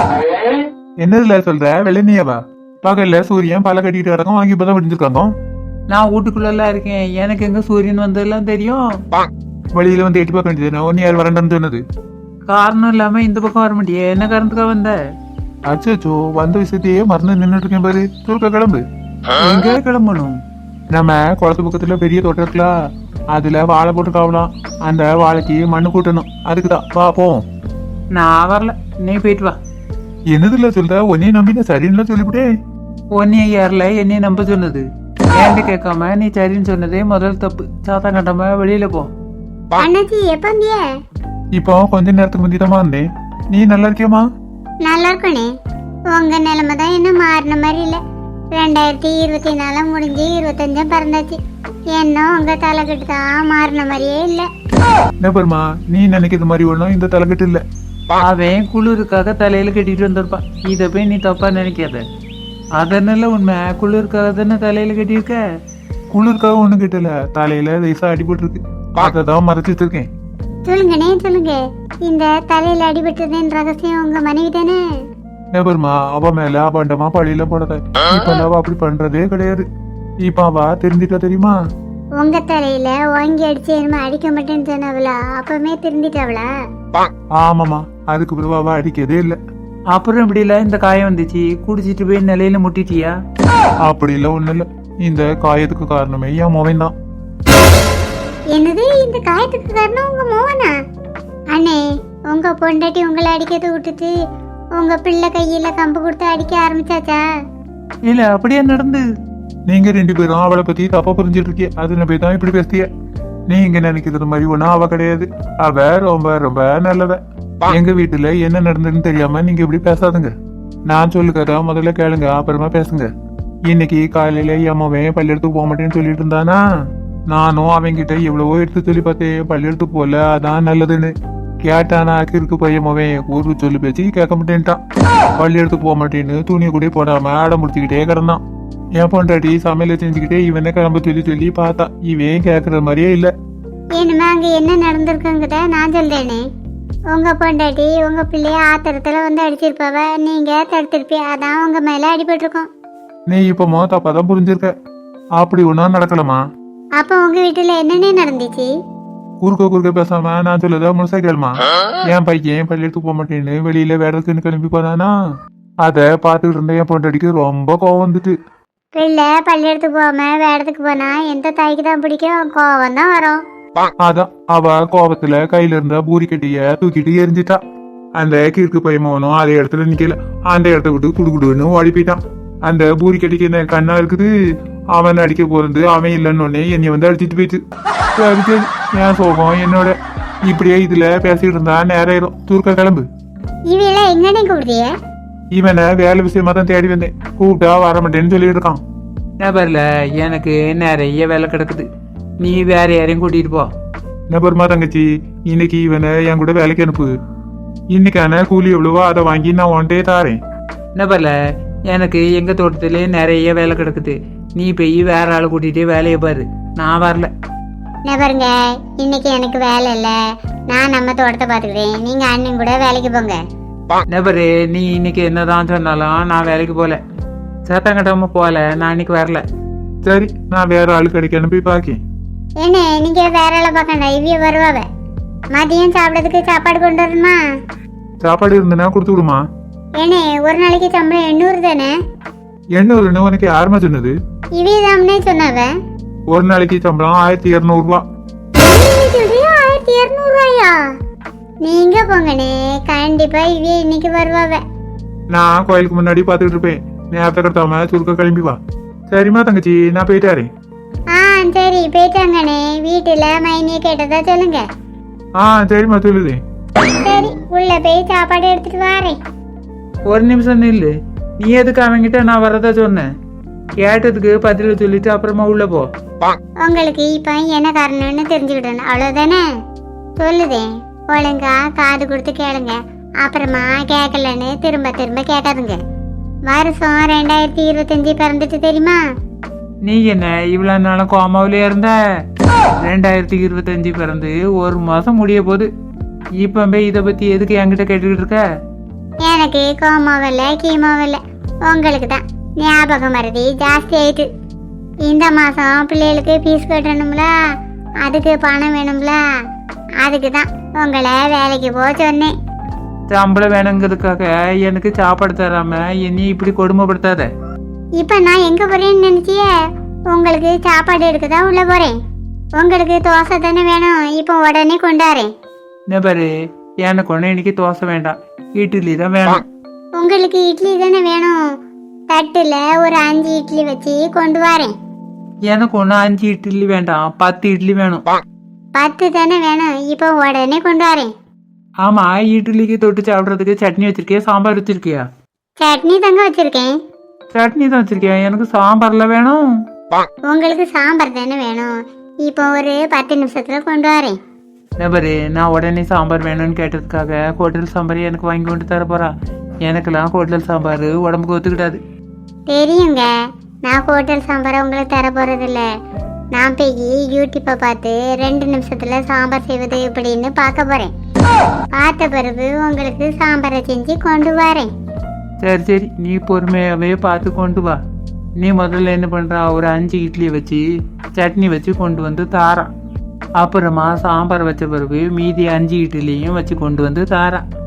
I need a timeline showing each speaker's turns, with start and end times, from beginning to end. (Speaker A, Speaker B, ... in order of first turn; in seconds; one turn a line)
Speaker A: 1.0-5.3
Speaker B: 5.9-8.8
Speaker A: 9.7-11.8
Speaker B: 12.5-15.0
Speaker A: 15.7-18.8
Speaker B: 19.4-20.4
Speaker A: 20.9-22.7
Speaker A: 23.3-27.4
Speaker B: 28.1-29.6
Speaker A: 30.3-32.5
Speaker B: 33.1-39.1
Speaker C: 39.7-40.8
Speaker A: 41.5-44.2
Speaker C: 44.9-45.5
Speaker C: 46.1-48.0
Speaker C: 48.6-51.4
Speaker C: 51.9-54.5
Speaker A: 55.2-57.6
Speaker B: 58.2-62.0
Speaker B: 62.8-65.4
Speaker A: 66.1-70.1
Speaker C: 70.7-74.8
Speaker A: 75.5-79.7
Speaker A: 80.2-81.6
Speaker C: 82.2-86.5
Speaker A: 87.4-89.4
Speaker B: 89.9-93.2
Speaker A: 93.8-96.9
Speaker C: 98.5-100.7
Speaker C: 101.5-101.8
Speaker C: 102.3-104.1
Speaker C: 104.8-107.2
Speaker B: 108.0-109.0
Speaker A: 109.7-112.9
Speaker A: 113.5-120.3
Speaker A: 120.9-123.1
Speaker A: 123.7-126.6
Speaker A: 127.3-131.1
Speaker A: 131.6-134.8
Speaker A: 135.4-138.4
Speaker A: 139.0-143.3
Speaker C: 144.0-146.4
Speaker C: 147.1-152.7
Speaker A: 153.3-154.7
Speaker A: 155.4-156.4
Speaker C: 157.0-158.7
Speaker A: 159.4-165.1
Speaker A: 165.8-168.3
Speaker C: 168.9-173.4
Speaker A: 174.0-177.6
Speaker A: 178.2-184.3
Speaker A: 184.9-187.6
Speaker A: 188.2-193.0
Speaker C: 193.7-194.9
Speaker A: 195.5-198.8
Speaker B: 199.4-201.8
Speaker B: 202.4-203.7
Speaker A: 204.3-207.1
Speaker A: 207.9-210.4
Speaker B: 210.9-211.3
Speaker B: 211.9-217.3
Speaker C: 218.1-220.2
Speaker C: 220.7-223.4
Speaker B: 224.1-227.0
Speaker B: 227.7-229.4
Speaker A: 230.0-232.0
Speaker C: 232.6-234.8
Speaker C: 235.5-237.4
Speaker A: 238.2-239.4
Speaker C: 240.0-241.9
Speaker A: 242.8-244.1
Speaker C: 244.6-245.7
Speaker A: 246.3-248.0
Speaker C: 248.5-250.8
Speaker C: 251.6-254.6
Speaker A: 255.3-258.6
Speaker A: 259.1-260.5
Speaker C: 261.1-264.6
Speaker A: 265.4-266.4
Speaker C: 266.8-269.2
Speaker B: 270.1-273.1
Speaker B: 273.8-275.9
Speaker C: 276.6-279.4
Speaker C: 280.2-285.8
Speaker C: 286.5-289.0
Speaker B: 289.8-291.9
Speaker B: 292.8-295.7
Speaker B: 296.4-298.4
Speaker C: 299.2-304.3
Speaker C: 305.1-307.3
Speaker C: 308.0-309.2
Speaker C: 310.0-312.3
Speaker B: 313.1-317.3
Speaker C: 318.0-319.5
Speaker C: 320.1-321.9
Speaker C: 322.6-325.3
Speaker B: 325.9-326.3
Speaker B: 326.8-329.4
Speaker C: 330.0-331.3
Speaker C: 332.1-334.7
Speaker B: 335.5-338.1
Speaker C: 338.8-341.1
Speaker B: 341.8-345.1
Speaker C: 345.6-346.7
Speaker B: 347.3-349.4
Speaker C: 350.3-354.1
Speaker B: 354.8-359.1
Speaker B: 359.6-361.8
Speaker C: 362.5-363.1
Speaker C: 363.7-365.6
Speaker C: 366.3-370.9
Speaker C: 371.8-374.7
Speaker B: 375.4-377.8
Speaker B: 378.4-380.6
Speaker B: 381.1-382.7
Speaker B: 383.4-387.4